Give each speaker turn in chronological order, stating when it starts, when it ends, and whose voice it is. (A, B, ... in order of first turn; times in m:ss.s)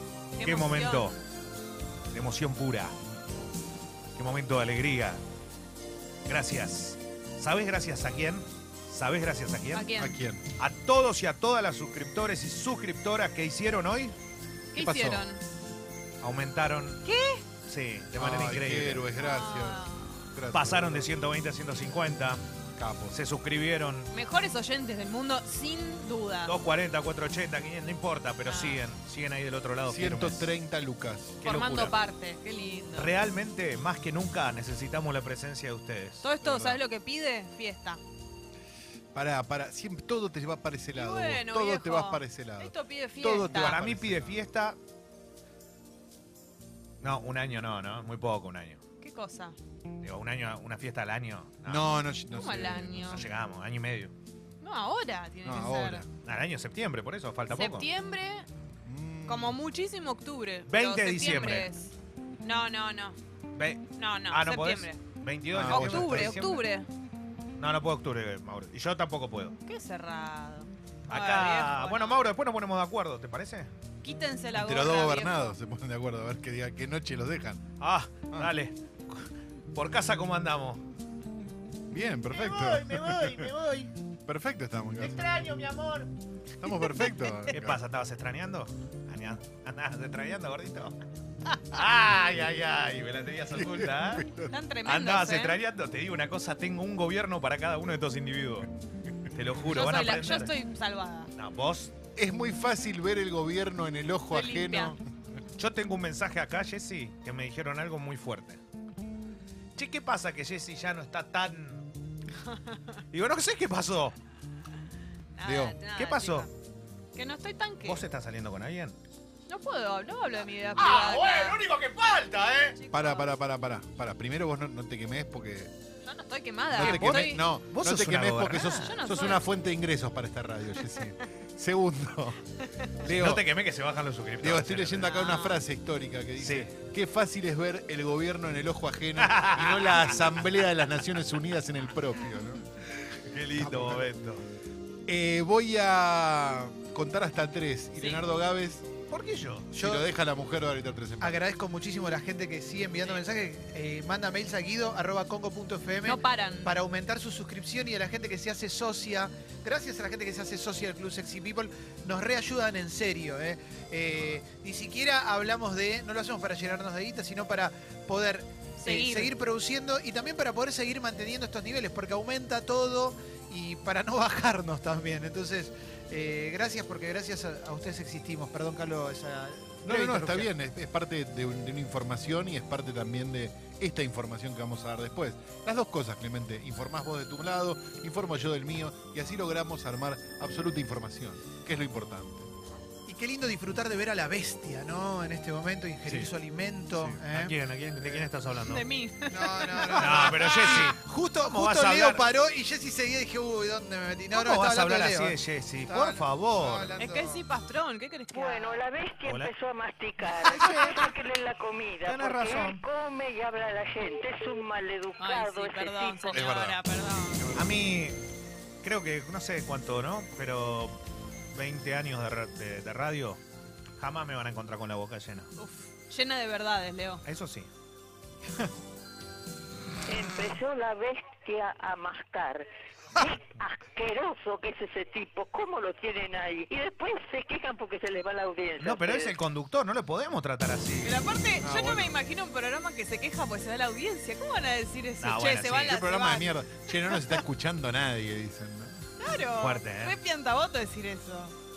0:00.4-0:01.2 A
0:00.4-0:01.2 B
0:02.1-0:03.0 B
0:04.1-0:05.2 B
0:06.2-0:09.9 B
0:09.7-0:10.2 A
0:10.0-0:10.4 C
0:10.6-0:14.2 B
0:14.7-0:15.4 A
0:14.8-0:15.2 C
0:16.2-0:17.0 B
0:17.0-0:17.4 A
0:17.6-0:19.0 B
0:18.1-0:21.1 C
0:19.2-0:20.3 A
0:20.5-0:22.4 B
0:22.8-0:23.2 C
0:23.1-0:24.1 B
0:24.1-0:26.5 A
0:26.4-0:30.5 B
0:28.4-0:28.8 A
0:29.9-0:31.6 C
0:31.4-0:31.9 B
0:31.4-0:33.1 A
0:33.0-0:36.8 B
0:36.2-0:38.0 A
0:39.1-0:44.4 C
0:40.9-0:43.8 A
0:43.5-0:44.8 B
0:47.0-0:48.8 B
0:49.0-0:49.6 A
0:50.0-0:51.9 B
0:51.6-0:53.3 C
0:52.3-0:53.2 A
0:53.1-0:54.1 B
0:54.6-0:56.0 A
0:55.4-0:56.1 C
0:56.2-0:57.9 B
0:57.5-0:58.5 A
0:58.8-0:59.6 C
0:59.3-1:03.2 A
1:00.7-1:01.7 B
1:03.5-1:06.6 B
1:03.9-1:05.0 A
1:05.5-1:06.4 C
1:05.7-1:06.9 A
1:07.6-1:09.6 B
1:09.6-1:12.2 A
1:11.1-1:13.7 B
1:14.0-1:15.5 A
1:14.5-1:17.6 C
1:17.8-1:20.8 B
1:21.9-1:23.5 C
1:22.3-1:23.9 B
1:24.2-1:25.2 C
1:25.0-1:26.1 B
1:26.6-1:27.8 C
1:27.5-1:31.0 B
1:31.5-1:34.3 B
1:33.5-1:34.5 C
1:34.5-1:35.6 A
1:34.8-1:38.7 B
1:39.3-1:40.5 B
1:39.7-1:41.3 A
1:41.3-1:41.9 B
1:42.1-1:45.0 C
1:44.3-1:44.9 A
1:45.6-1:48.6 B
1:49.8-1:51.9 B
1:53.1-1:54.2 B
1:55.3-1:56.5 A
1:55.4-1:55.8 C
1:55.9-1:56.5 B
1:57.1-1:58.0 A
1:57.8-1:59.0 B
1:59.5-2:01.6 A
2:00.7-2:02.8 B
2:02.8-2:03.3 A
2:02.9-2:05.7 C
2:06.0-2:07.4 A
2:06.7-2:13.4 C
2:06.8-2:08.9 B
2:08.8-2:09.4 A
2:13.0-2:15.3 B
2:14.4-2:22.8 C
2:15.3-2:15.6 A
2:16.4-2:16.7 B
2:19.2-2:20.5 B
2:23.0-2:24.4 B
2:23.6-2:24.1 D
2:25.1-2:28.9 C
2:27.9-2:28.2 A
2:29.1-2:29.7 B
2:29.7-2:30.1 D
2:29.7-2:31.4 C
2:31.2-3:00.5 D
2:36.0-2:36.7 A
2:48.8-2:49.3 A
2:59.8-3:12.5 C
3:13.0-3:18.2 D
3:16.0-3:16.3 B
3:16.9-3:18.8 B
3:18.6-3:19.8 A
3:19.3-3:27.4 D
3:19.9-3:22.3 B
3:24.3-3:27.0 B
3:27.0-3:28.8 A
3:28.3-3:36.4 E
3:29.2-3:29.5 B
3:30.4-3:31.0 B
3:30.6-3:31.0 D
3:32.0-3:32.8 B
3:35.2-3:37.5 A
3:36.3-3:36.8 C
3:37.4-3:37.8 C
3:37.5-3:38.2 B
3:38.8-3:41.0 B
3:41.5-3:43.4 B
3:44.0-3:45.5 B
3:45.6-3:47.2 A
3:47.2-3:47.7 B
3:50.0-3:59.4 E
3:58.8-4:01.2 B
4:01.0-4:07.2 A
4:01.6-4:02.2 C
4:05.2-4:06.0 B
4:05.8-4:09.0 C
4:09.2-4:11.5 A
4:09.6-4:10.2 B